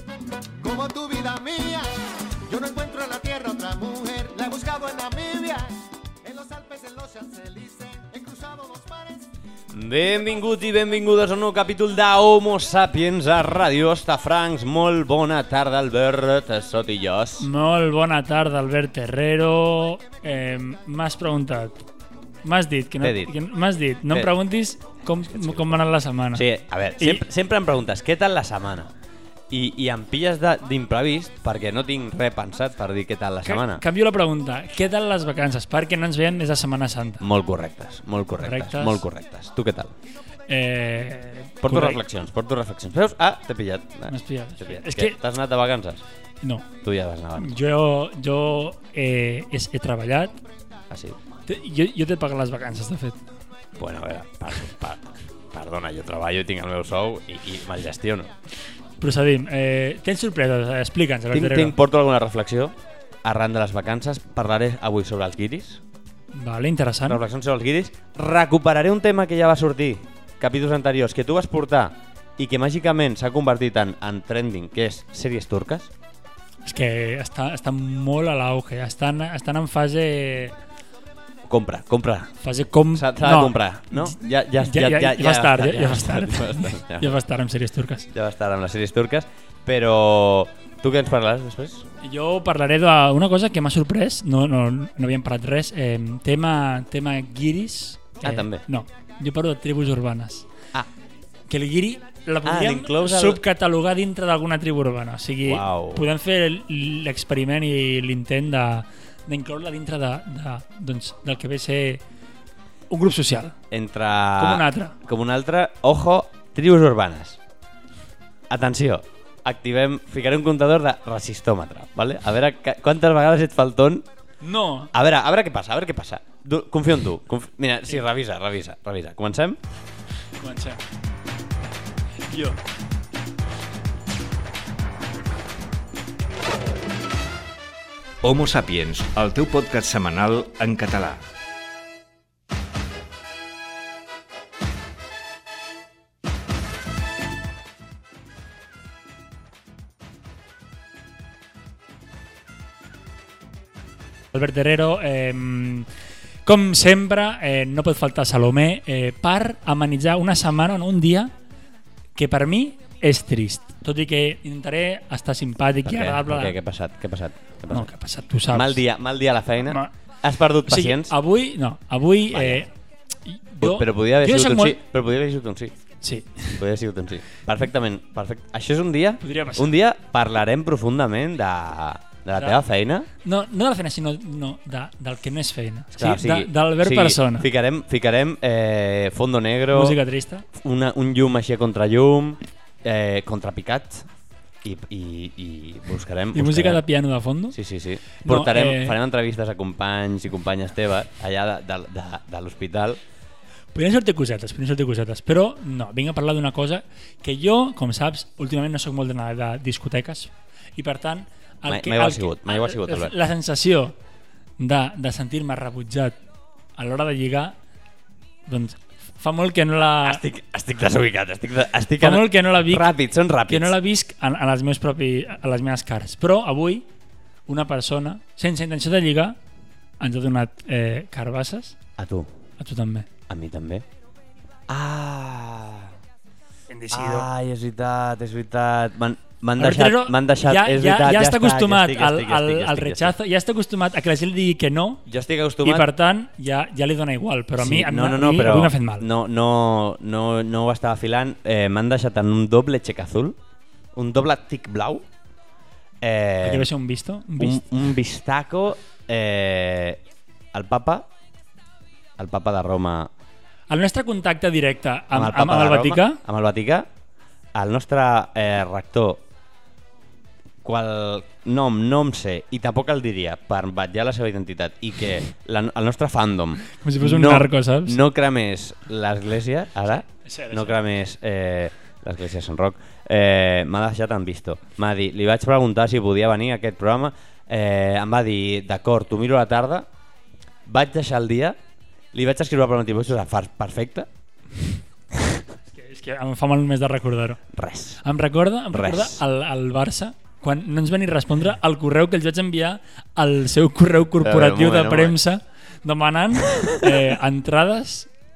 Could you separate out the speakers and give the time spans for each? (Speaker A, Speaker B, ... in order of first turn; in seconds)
Speaker A: 0.6-1.9, 2.5-9.3, 10.1-10.5
Speaker B: 9.7-17.5, 23.0-23.3, 25.3-25.8, 26.3-28.9, 29.5-33.8, 37.2-39.9, 41.6-46.0, 46.8-47.6, 50.9-51.2, 53.8-58.3, 61.3-65.8, 67.1-75.9, 81.4-82.3, 82.9-87.2, 88.1-91.9, 98.2-98.6, 102.4-103.4, 105.4-106.0, 113.7-117.4, 118.5-124.0, 124.9-129.6, 165.8-167.9, 168.5-171.1, 172.3-172.7, 173.6-175.7, 176.5-183.1, 185.9-190.0, 190.5-194.1, 194.6-196.8, 197.5-203.0, 211.7-213.1, 220.0-223.8, 232.0-232.3, 233.3-233.8, 234.7-235.9, 236.9-243.1, 245.1-245.9, 247.6-253.4, 253.9-255.1, 256.0-256.7, 257.4-260.0, 260.5-261.1, 262.2-263.1, 265.1-266.9, 267.5-269.2, 270.6-289.9, 290.6-291.6, 292.1-294.1, 297.5-298.0, 298.7-299.2, 304.2-305.2, 306.5-306.9
Speaker C: 17.4-21.8, 22.4-26.4, 33.4-37.2, 38.4-39.0, 40.5-42.0, 44.1-45.2, 47.4-50.4, 51.5-53.2, 59.0-61.7, 66.3-67.2, 76.6-80.5, 82.4-88.1, 92.0-100.5, 101.5-112.0, 112.9-113.5, 114.4-115.0, 124.4-124.9, 130.4-130.8, 132.2-132.6, 154.3-155.9, 156.4-161.3, 162.2-166.5, 167.7-168.8, 170.7-172.7, 173.2-174.8, 176.0-176.6, 179.2-179.7, 183.2-187.5, 189.7-190.4, 196.3-197.6, 198.2-199.0, 203.7-213.9, 214.6-216.2, 216.8-217.6, 218.5-220.2, 222.0-222.9, 223.5-226.8, 227.5-229.3, 230.0-231.8, 232.6-233.1, 236.7-237.3, 239.6-245.0, 245.6-249.1, 256.4-257.6, 263.7-266.2, 276.7-278.0, 280.1-280.8, 295.7-297.4, 298.0-308.1
Speaker D: 138.2-141.2